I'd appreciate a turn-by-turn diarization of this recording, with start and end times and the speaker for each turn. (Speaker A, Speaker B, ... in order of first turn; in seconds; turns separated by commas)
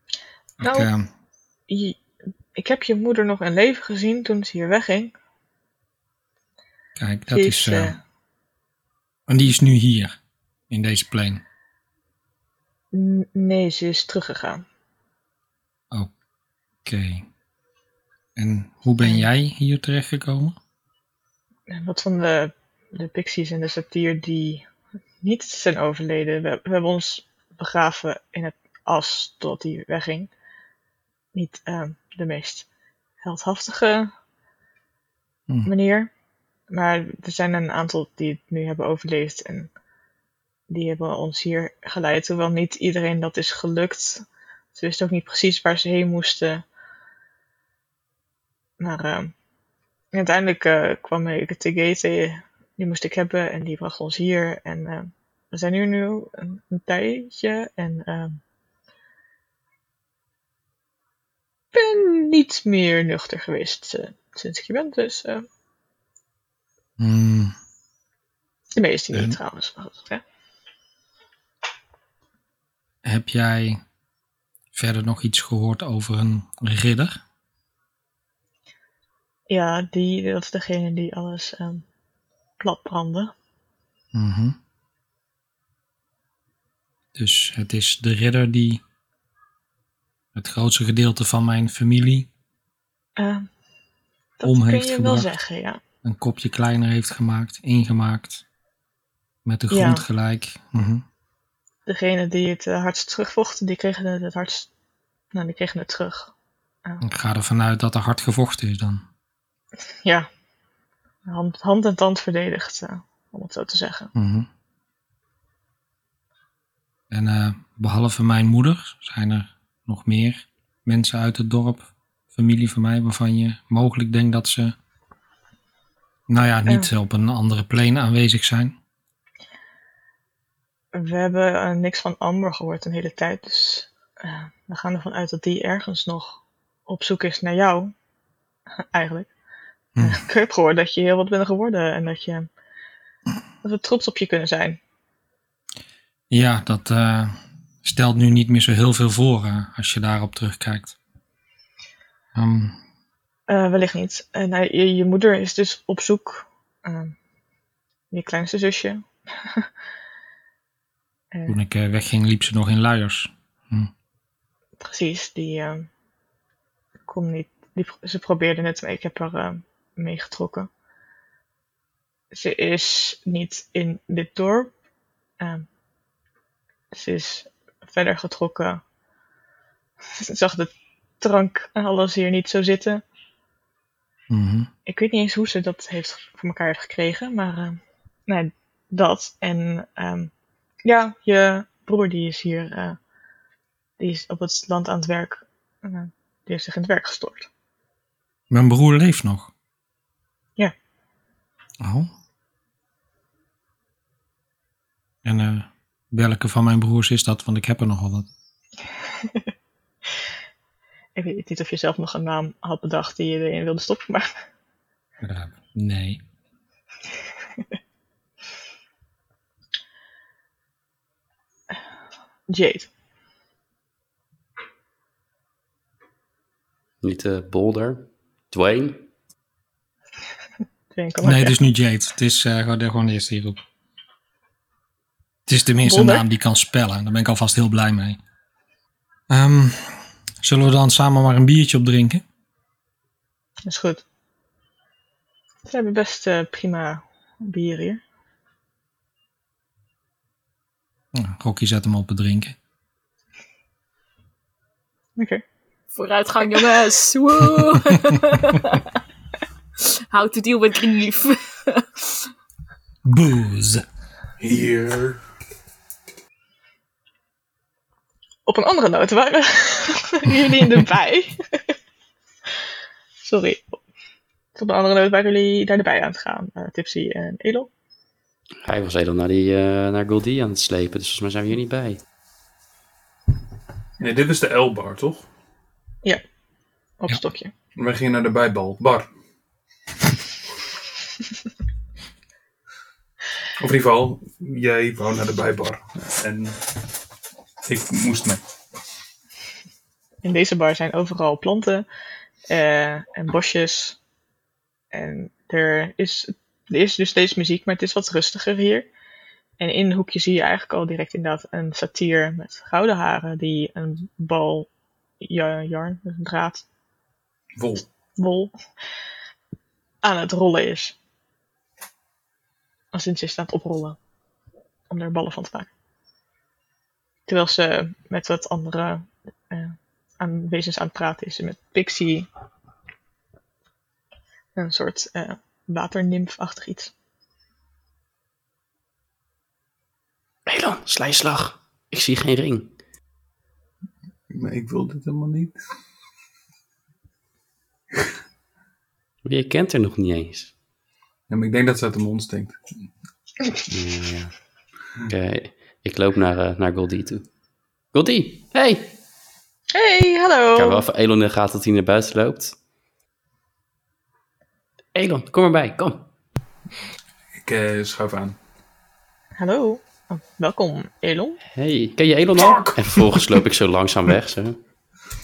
Speaker A: 0.6-1.1, Speaker B: 0.6-0.9, Speaker B: 1.7-2.0, Speaker B: 2.5-5.1, Speaker A: 7.0-8.0, Speaker B: 7.3-8.0, Speaker A: 9.3-10.2, Speaker A: 10.7-11.4, Speaker B: 12.9-14.7, Speaker A: 16.9-17.2, Speaker A: 18.4-20.6, Speaker B: 21.7-24.6, Speaker B: 25.2-30.3, Speaker B: 31.3-32.7, Speaker B: 33.2-34.1, Speaker B: 35.7-36.1, Speaker B: 36.7-39.7, Speaker B: 40.7-46.6, Speaker B: 48.8-49.3, Speaker B: 50.1-58.4, Speaker B: 61.7-65.5, Speaker A: 67.0-67.5, Speaker B: 68.8-70.2, Speaker A: 73.0-73.8, Speaker A: 74.7-77.2, Speaker B: 79.5-81.8, Speaker B: 82.6-83.3, Speaker A: 84.1-84.6, Speaker A: 87.2-88.8, Speaker A: 90.3-92.3, Speaker B: 93.2-93.5, Speaker B: 94.4-95.8, Speaker A: 94.4-95.3, Speaker A: 96.0-98.4, Speaker A: 99.5-101.0, Speaker B: 99.7-100.0, Speaker B: 101.9-104.7, Speaker B: 105.3-106.3, Speaker A: 107.0-109.0, Speaker B: 111.3-114.1, Speaker A: 114.2-114.5, Speaker A: 117.1-124.8, Speaker A: 126.3-128.8, Speaker B: 130.9-137.9, Speaker B: 138.9-139.3, Speaker A: 140.0-140.2, Speaker B: 140.0-142.5, Speaker B: 143.6-144.8, Speaker A: 146.3-150.9, Speaker A: 152.3-152.8, Speaker B: 153.5-157.2, Speaker B: 158.1-159.7, Speaker B: 161.3-161.6, Speaker A: 161.5-163.9, Speaker B: 164.8-165.9, Speaker B: 167.1-170.7, Speaker B: 172.3-174.7, Speaker B: 175.4-175.7, Speaker B: 176.9-178.8, Speaker B: 180.2-183.0, Speaker A: 184.3-184.7, Speaker B: 184.9-190.3, Speaker B: 190.8-193.0, Speaker B: 194.0-197.5, Speaker A: 198.5-199.5, Speaker A: 201.8-202.1, Speaker A: 205.2-208.3, Speaker B: 209.2-209.5, Speaker B: 211.2-214.4, Speaker A: 215.2-216.2, Speaker B: 222.5-222.9, Speaker C: 227.0-229.1, Speaker B: 230.9-231.6, Speaker A: 231.2-233.6, Speaker A: 235.5-238.2, Speaker B: 235.8-236.2, Speaker A: 239.3-242.2, Speaker B: 243.7-244.0, Speaker B: 245.7-248.0, Speaker A: 251.1-252.6, Speaker B: 255.2-255.4, Speaker D: 255.9-258.9, Speaker D: 259.8-262.3, Speaker A: 263.1-263.8, Speaker E: 264.4-265.2, Speaker B: 268.5-271.7, Speaker B: 273.2-273.8, Speaker B: 274.6-277.7, Speaker C: 278.6-282.0, Speaker E: 284.0-285.3, Speaker B: 287.0-287.5, Speaker E: 287.8-289.1, Speaker E: 293.6-296.6, Speaker E: 297.6-298.4, Speaker B: 300.2-301.9, Speaker B: 302.5-304.0, Speaker B: 304.9-308.9, Speaker B: 309.6-314.7, Speaker B: 315.2-316.6, Speaker E: 317.6-317.9, Speaker B: 318.2-318.5, Speaker B: 320.0-321.0, Speaker B: 322.9-324.0, Speaker B: 324.9-325.7, Speaker B: 327.3-332.3, Speaker B: 334.6-336.9, Speaker C: 340.5-342.7, Speaker E: 344.3-345.6, Speaker C: 349.2-350.5, Speaker E: 351.3-352.6, Speaker C: 353.7-354.4, Speaker C: 355.1-357.3, Speaker C: 357.9-359.0, Speaker B: 359.7-360.9, Speaker C: 360.6-362.6, Speaker C: 364.9-366.1, Speaker E: 367.4-368.4, Speaker B: 369.4-371.4, Speaker C: 371.5-374.6, Speaker E: 372.4-373.2